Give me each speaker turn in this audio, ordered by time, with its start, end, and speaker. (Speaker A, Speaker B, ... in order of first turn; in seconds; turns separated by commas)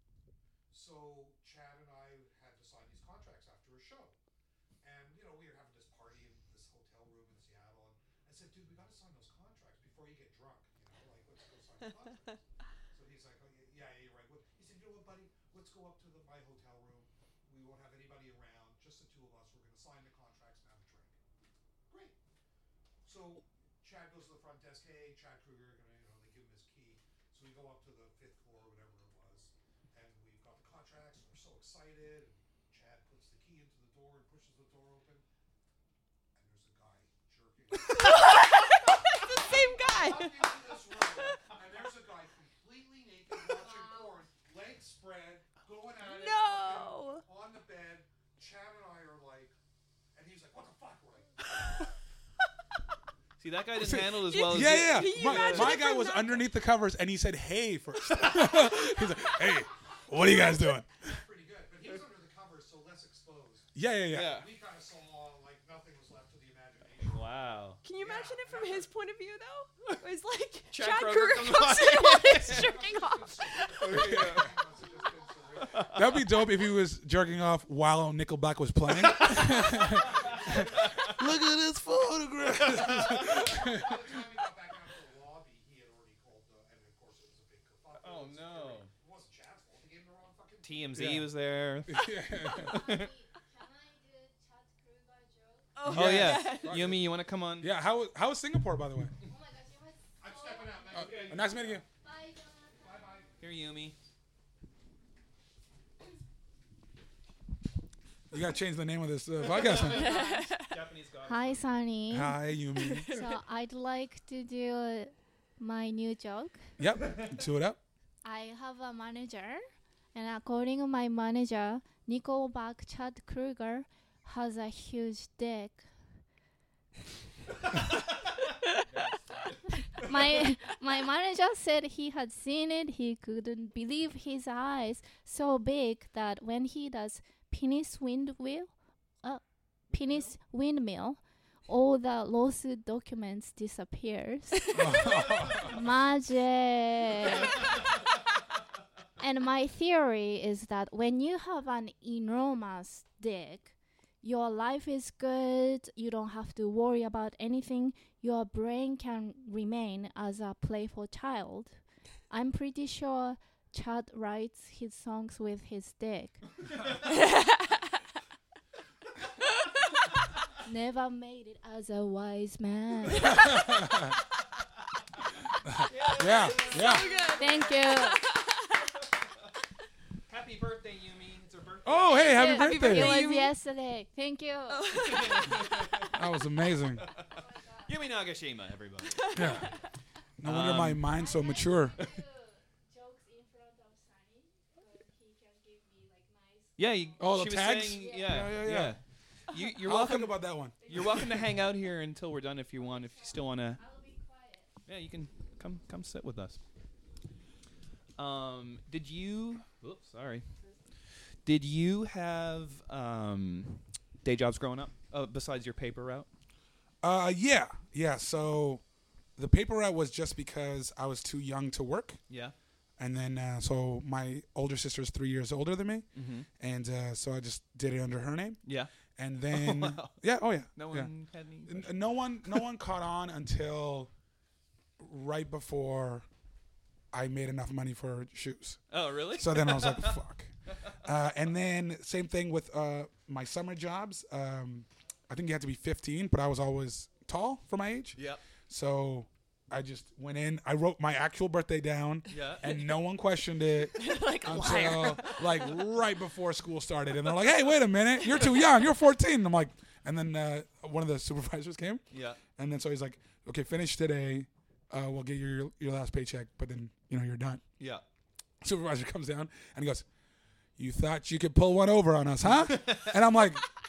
Speaker A: 0.7-4.2, Speaker A: 4.8-21.2, Speaker A: 21.9-22.2, Speaker A: 23.1-35.2, Speaker A: 36.4-49.5, Speaker B: 37.7-41.4, Speaker B: 46.0-47.2, Speaker A: 50.1-51.9, Speaker C: 53.4-55.8, Speaker D: 53.8-61.1, Speaker B: 54.2-56.5, Speaker B: 58.2-58.9, Speaker A: 60.1-67.3, Speaker D: 63.8-64.4, Speaker C: 64.1-64.5, Speaker C: 67.0-67.8, Speaker B: 67.8-74.3, Speaker A: 68.0-68.9, Speaker C: 70.7-72.7, Speaker A: 72.4-76.1, Speaker C: 73.8-74.5, Speaker D: 73.9-74.5, Speaker C: 75.6-76.0, Speaker D: 75.9-84.0, Speaker C: 79.0-81.3, Speaker A: 79.6-81.2, Speaker C: 82.5-83.4, Speaker A: 82.8-91.2, Speaker C: 88.0-88.9, Speaker C: 90.6-93.1, Speaker D: 91.0-91.3, Speaker D: 91.9-93.0, Speaker E: 92.4-95.8, Speaker B: 95.8-96.8, Speaker D: 95.8-97.1, Speaker C: 95.9-97.7, Speaker D: 97.6-99.2, Speaker E: 99.2-101.2, Speaker A: 100.2-101.9, Speaker D: 100.9-101.8, Speaker E: 102.0-102.9, Speaker A: 102.8-103.3, Speaker C: 103.4-104.0, Speaker D: 108.3-110.1, Speaker C: 109.5-111.7, Speaker B: 109.9-110.7, Speaker E: 110.0-110.5, Speaker E: 111.3-112.4, Speaker D: 112.1-113.2, Speaker B: 112.8-113.2, Speaker E: 113.0-116.6, Speaker D: 116.8-117.8, Speaker E: 118.2-125.9, Speaker C: 128.8-130.1, Speaker E: 129.9-147.8, Speaker D: 144.7-145.8, Speaker E: 149.2-161.8, Speaker E: 162.3-166.4, Speaker B: 167.0-167.8, Speaker E: 170.7-174.1, Speaker D: 173.2-174.1, Speaker D: 175.7-177.1, Speaker C: 175.9-177.7, Speaker B: 176.0-178.9, Speaker E: 176.8-178.3, Speaker C: 180.3-182.7, Speaker D: 181.8-183.2, Speaker E: 182.3-185.3, Speaker B: 182.4-183.5, Speaker B: 184.7-186.0, Speaker C: 184.9-186.2, Speaker D: 186.1-187.1, Speaker C: 187.0-189.6, Speaker E: 187.3-187.9, Speaker B: 189.2-189.8, Speaker D: 189.3-189.7, Speaker D: 190.4-192.0, Speaker C: 190.4-191.1, Speaker E: 191.2-197.1, Speaker C: 196.8-203.8, Speaker D: 197.2-199.0, Speaker E: 198.0-198.6, Speaker D: 199.8-201.3, Speaker E: 200.8-201.2, Speaker E: 202.8-204.8, Speaker C: 204.9-206.6, Speaker C: 208.2-210.5, Speaker C: 211.5-216.3, Speaker D: 217.0-218.8, Speaker D: 219.4-222.2, Speaker C: 222.3-222.6, Speaker D: 223.0-226.1, Speaker C: 226.2-226.5, Speaker D: 226.6-228.6, Speaker C: 228.6-228.9, Speaker D: 229.2-231.1, Speaker C: 229.5-230.2, Speaker C: 230.8-232.5, Speaker D: 231.7-234.1, Speaker D: 235.0-236.3, Speaker D: 237.1-238.8, Speaker C: 238.9-240.2, Speaker D: 239.3-240.5, Speaker D: 241.0-248.2, Speaker C: 248.2-248.4, Speaker D: 248.7-262.0, Speaker C: 252.3-252.8, Speaker B: 254.0-255.7, Speaker C: 262.1-262.4, Speaker D: 262.6-267.6, Speaker D: 268.6-270.1, Speaker D: 270.8-273.7, Speaker C: 272.4-273.5